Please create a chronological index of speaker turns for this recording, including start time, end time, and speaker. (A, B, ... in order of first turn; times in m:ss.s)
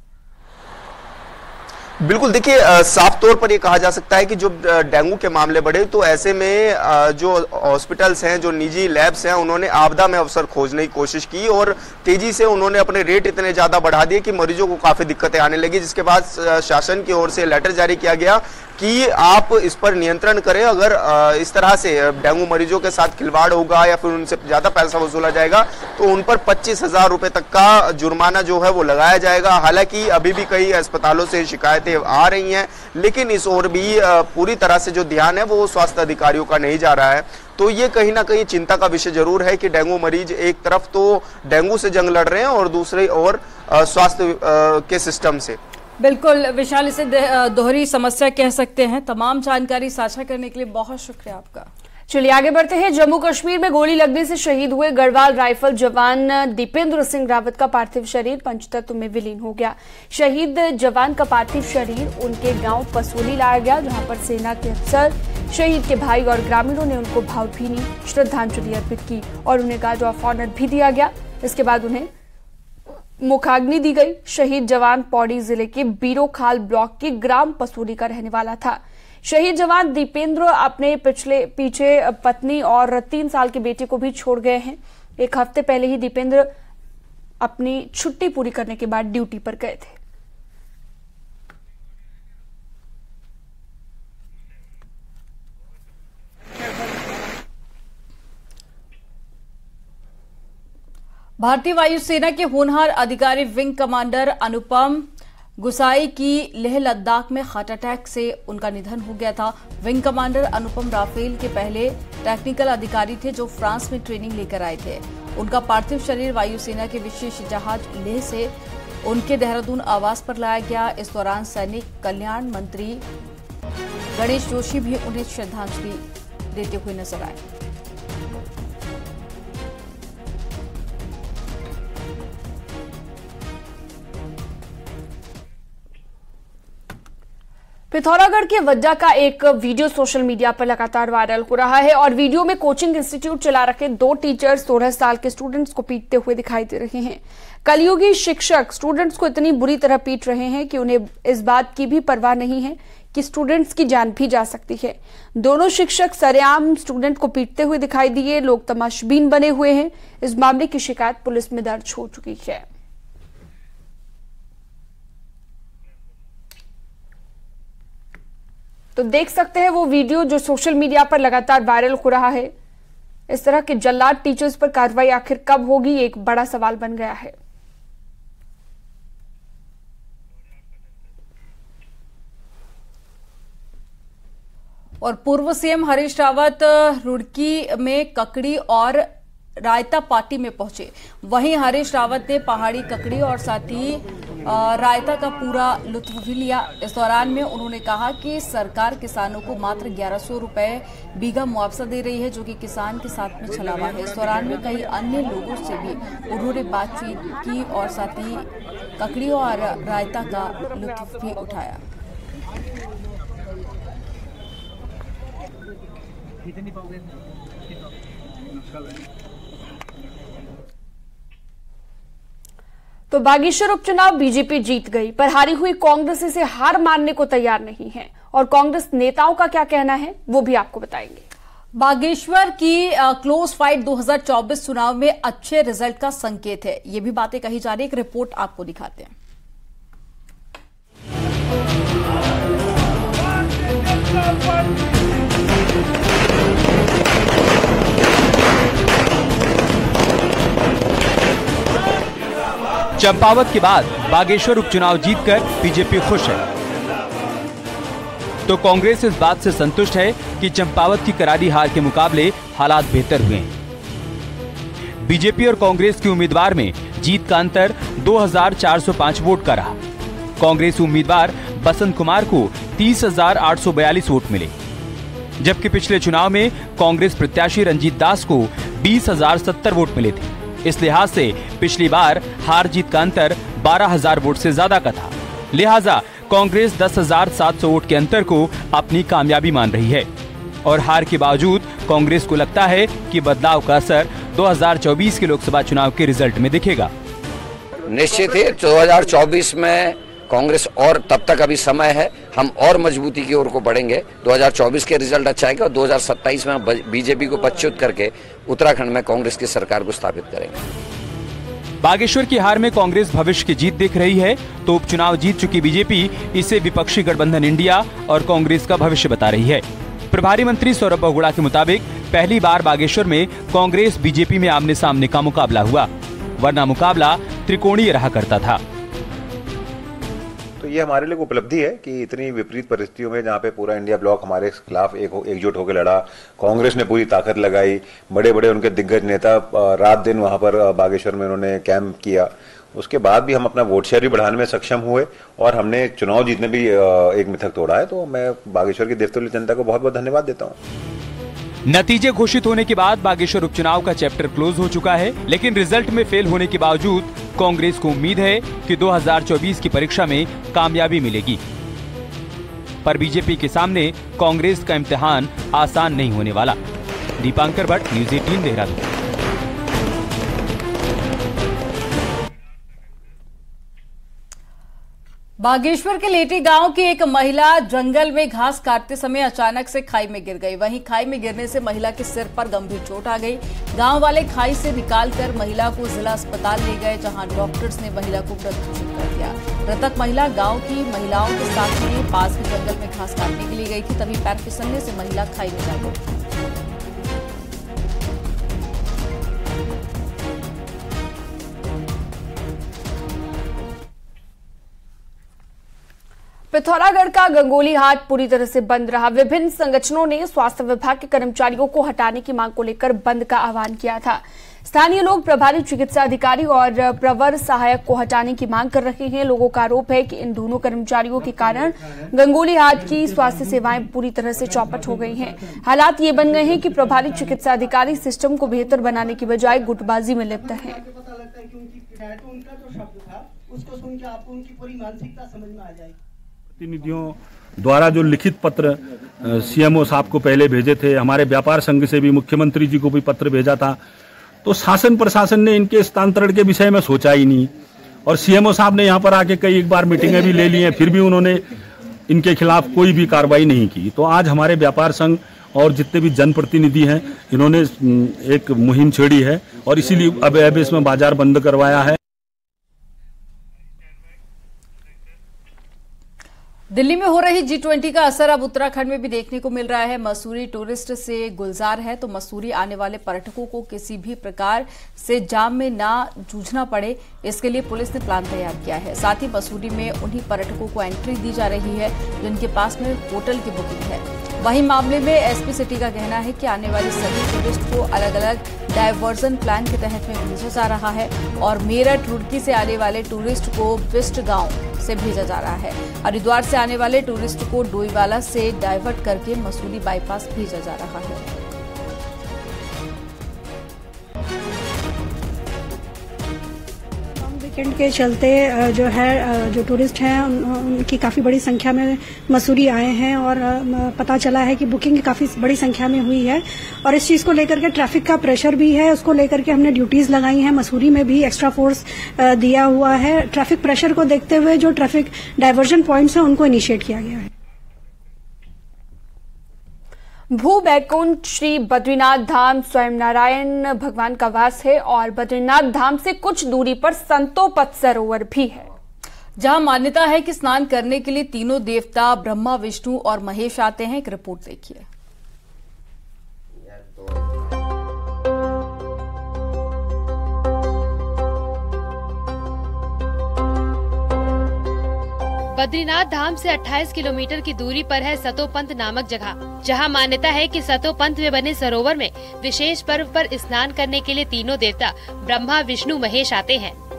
0:02.0-0:45.6 A
0:46.0-0:51.7 B
0:52.1-1:12.1 C
1:13.2-1:26.5 C
1:27.4-1:30.0 C
1:41.4-1:45.1 B
1:45.6-1:58.5 B
1:59.0-2:03.0 B
2:04.1-2:07.4 B
2:17.9-2:42.6 C
2:49.0-2:52.5 C
2:53.3-2:57.3 C
3:05.0-3:09.1 B
3:09.6-3:31.8 B
3:43.1-3:51.2 C
3:51.7-3:59.1 B
4:13.0-4:16.4 D
4:18.5-4:23.5 D
4:25.0-4:29.7 D
4:30.4-4:34.5 D
4:35.4-4:50.0 D
4:50.6-4:56.9 D
4:57.9-5:10.6 E
5:11.8-5:25.9 D
5:26.4-5:28.6 D
5:30.6-5:50.6 F
5:51.6-6:01.4 D
6:02.8-6:06.6 D
6:07.2-6:08.9 D
6:15.4-6:36.1 B
6:46.5-7:10.8 C
7:10.5-7:15.9 G
7:16.6-7:23.8 H
7:24.4-7:27.5 H
7:28.0-7:31.4 H
7:32.1-7:42.0 H
7:46.7-8:21.2 B
8:27.3-8:27.9 I
8:29.7-8:30.2 I
8:30.9-8:31.8 I
8:32.4-8:36.3 I
8:36.9-8:41.6 I
8:42.4-8:44.6 I
8:45.3-8:47.0 I
8:50.3-8:58.6 C
8:59.4-9:04.8 B
9:15.5-9:26.7 J